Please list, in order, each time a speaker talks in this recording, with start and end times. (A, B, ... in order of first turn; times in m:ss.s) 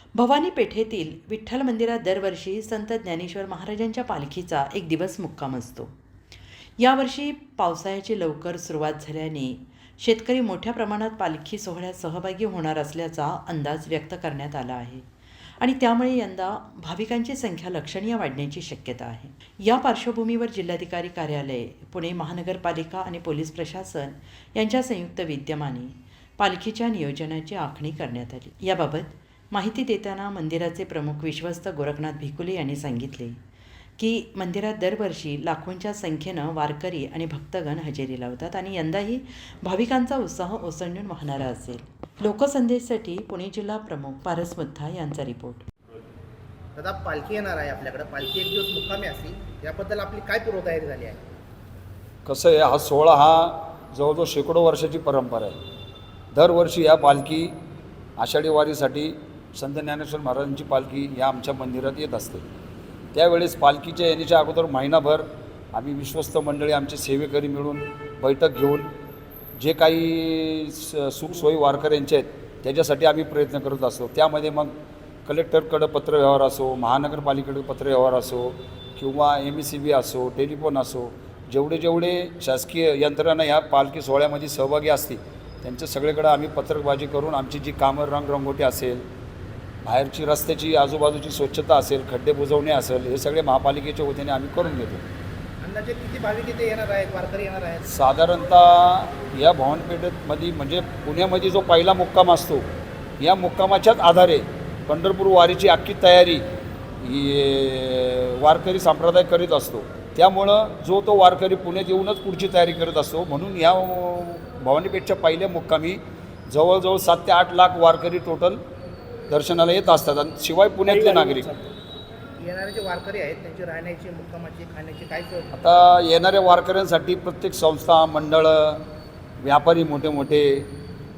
0:00.1-0:05.9 A
0:06.8-0:15.1 A
0:15.6-0:33.4 A
0:34.0-0:45.7 A
0:46.8-0:51.2 B
0:52.2-0:55.6 C
0:56.3-0:57.5 C
0:58.2-1:02.4 C
1:03.1-1:08.9 C
1:09.6-1:14.7 C
1:15.2-1:29.0 C
1:29.8-1:35.0 C
1:35.6-1:37.9 B
1:37.9-1:42.6 C
1:43.2-1:46.4 C
1:47.0-1:58.6 C
1:59.3-2:01.5 C
2:00.9-2:01.6 B
2:02.4-2:05.5 B
2:05.5-2:08.8 C
2:09.4-2:10.7 C